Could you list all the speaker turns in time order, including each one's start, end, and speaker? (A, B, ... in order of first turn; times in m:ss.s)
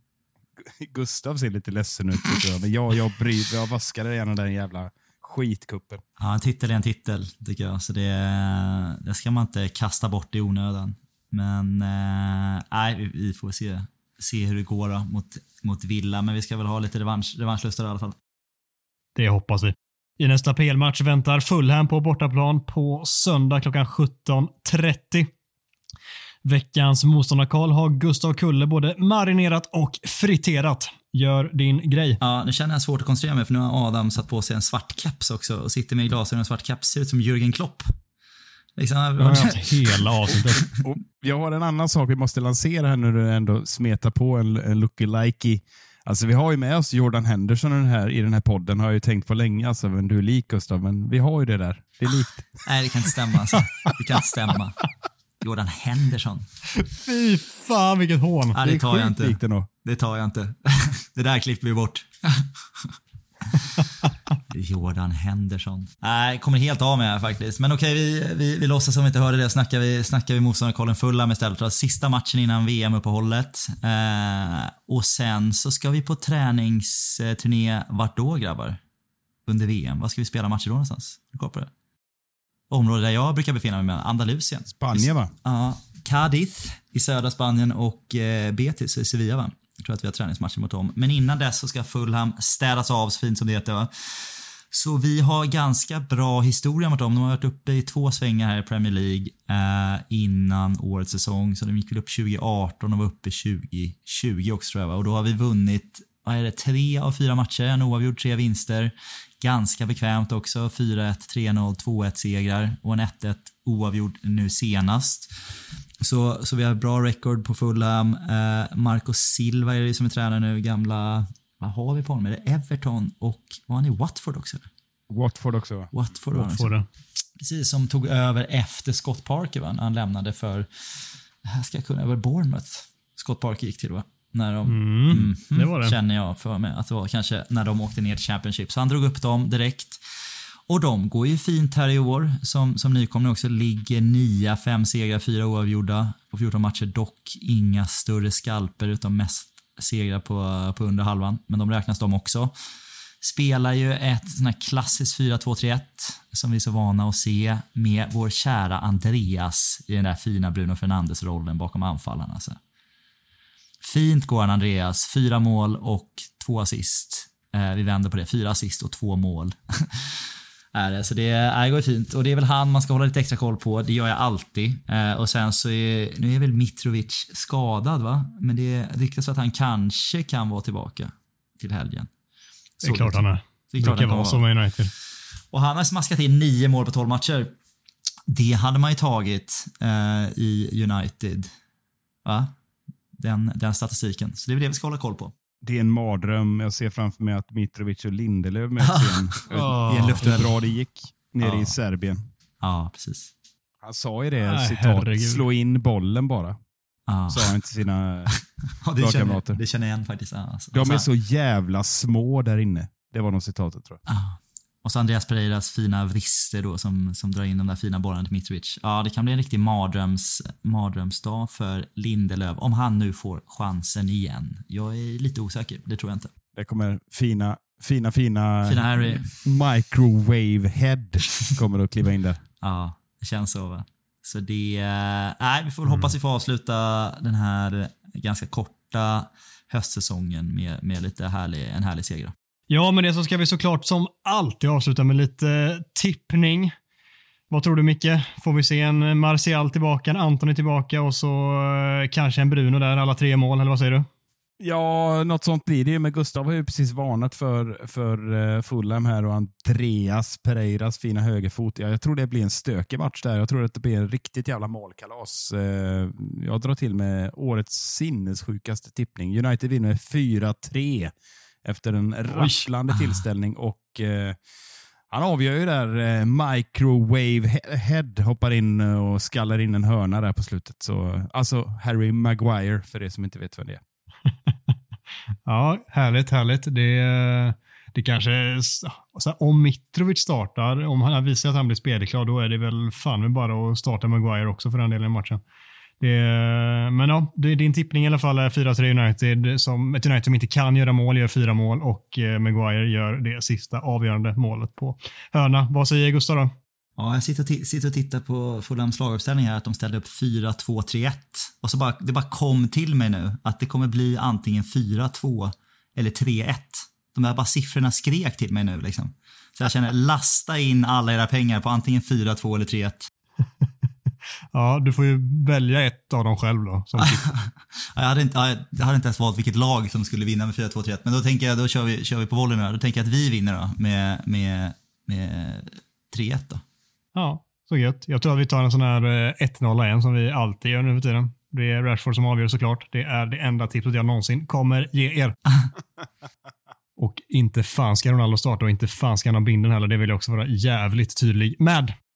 0:00.7-0:06.0 A
0:06.2-0:18.2 B
0:19.2-0:25.3 C
0:26.4-0:32.2 C
0:32.2-0:37.8 B
0:38.8-0:40.6 B
0:39.2-0:40.7 C
0:40.8-0:52.5 A
0:52.6-0:54.8 B
0:53.5-0:53.9 C
0:55.4-0:56.5 B
0:56.8-0:58.6 C
0:58.5-1:02.9 B
0:58.6-0:59.7 A
1:03.5-1:03.8 B
1:04.5-1:18.8 B
1:19.5-1:21.7 B
1:22.7-1:55.3 B
1:24.8-1:25.3 A
1:56.0-2:04.7 B
2:05.1-2:05.9 A
2:05.9-2:06.7 B
2:06.4-2:06.8 C
2:07.4-2:20.0 B
2:14.7-2:16.0 C
2:20.7-2:32.5 B
2:33.2-2:42.6 B
2:43.8-3:02.1 B
3:02.8-3:04.4 B
3:02.8-3:04.9 C
3:05.5-3:07.5 B
3:08.3-3:11.5 B
3:12.2-3:12.5 B
3:13.2-3:15.3 B
3:15.6-3:22.2 A
3:18.8-3:20.6 B
3:19.5-3:20.4 C
3:21.4-3:21.7 B
3:22.6-3:23.3 B
3:23.8-3:26.6 A
3:24.4-3:25.4 C
3:27.1-3:27.5 B
3:27.3-3:28.3 A
3:28.3-3:31.1 B
3:29.0-3:29.6 A
3:30.7-3:34.0 A
3:34.1-3:46.3 B
3:46.6-3:52.4 A
3:48.7-3:49.3 B
3:52.6-4:02.3 B
4:02.7-4:06.7 C
4:07.5-4:14.1 C
4:14.6-4:31.1 A
4:31.6-4:34.4 A
4:32.3-4:32.7 C
4:35.1-4:43.8 A
4:45.5-4:55.4 C
4:56.0-5:06.5 C
5:07.0-5:23.1 B
5:24.5-5:27.3 C
5:27.0-5:36.6 B
5:37.2-5:45.4 C
5:47.0-5:51.9 C